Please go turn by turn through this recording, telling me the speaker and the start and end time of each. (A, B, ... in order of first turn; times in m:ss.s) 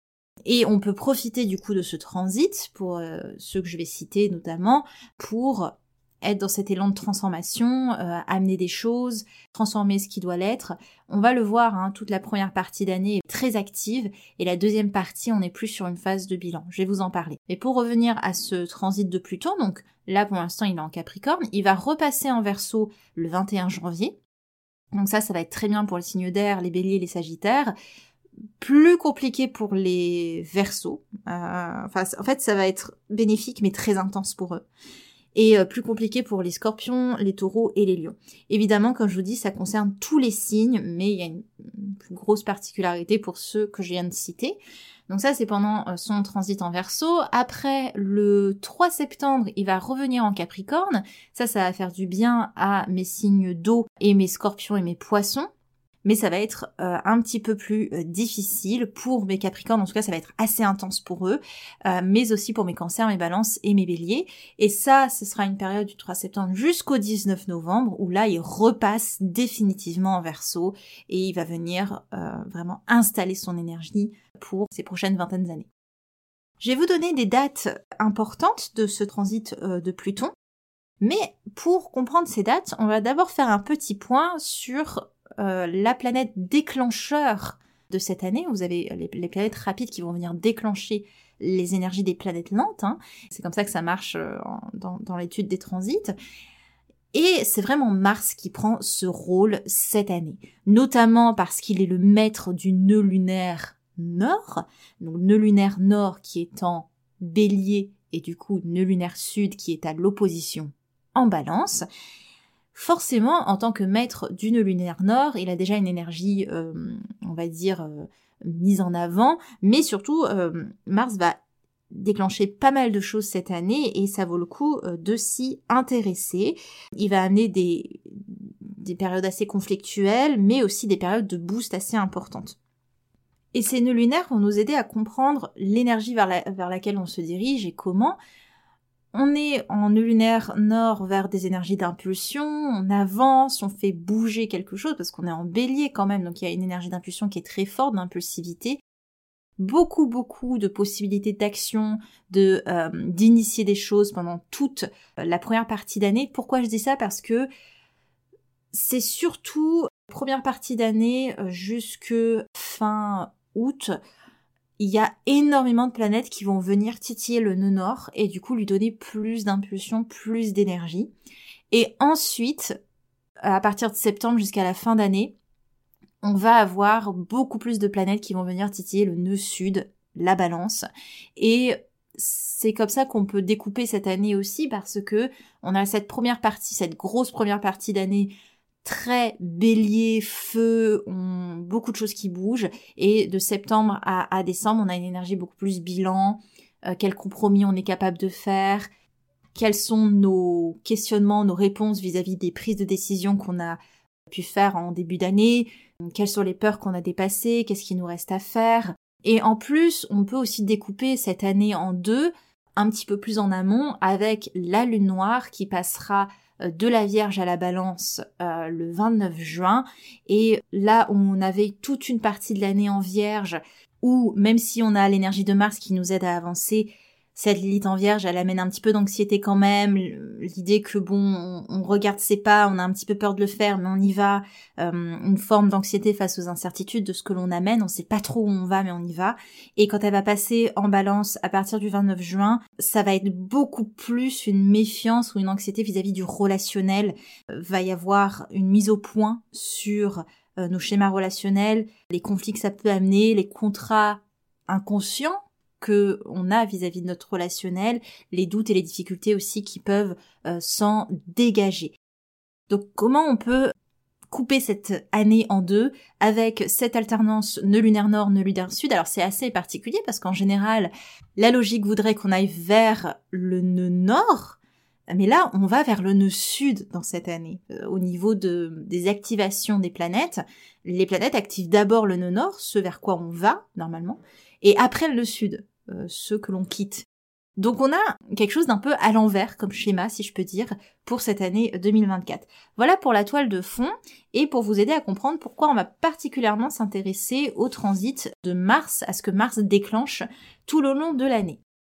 0:00.4-0:24.2 A
0:24.9-0:27.7 A
0:28.6-0:34.6 A
0:35.3-0:55.5 A
0:56.0-1:15.7 A
1:16.6-1:20.3 A
1:21.0-1:36.1 A
1:37.1-1:51.8 A
1:52.7-2:01.4 A
2:01.9-2:12.6 A
2:13.5-2:18.2 A
2:19.1-2:28.8 A
2:29.6-2:37.5 A
2:38.7-2:43.9 A
2:44.8-2:51.1 A
2:51.7-2:52.8 A
2:53.4-2:55.3 A
2:56.2-3:08.3 A
3:08.8-3:18.9 A
3:19.5-3:23.8 A
3:24.3-4:21.9 A
4:22.7-4:23.7 A
4:24.3-4:34.6 A
4:35.1-4:47.0 A
4:47.6-5:01.6 A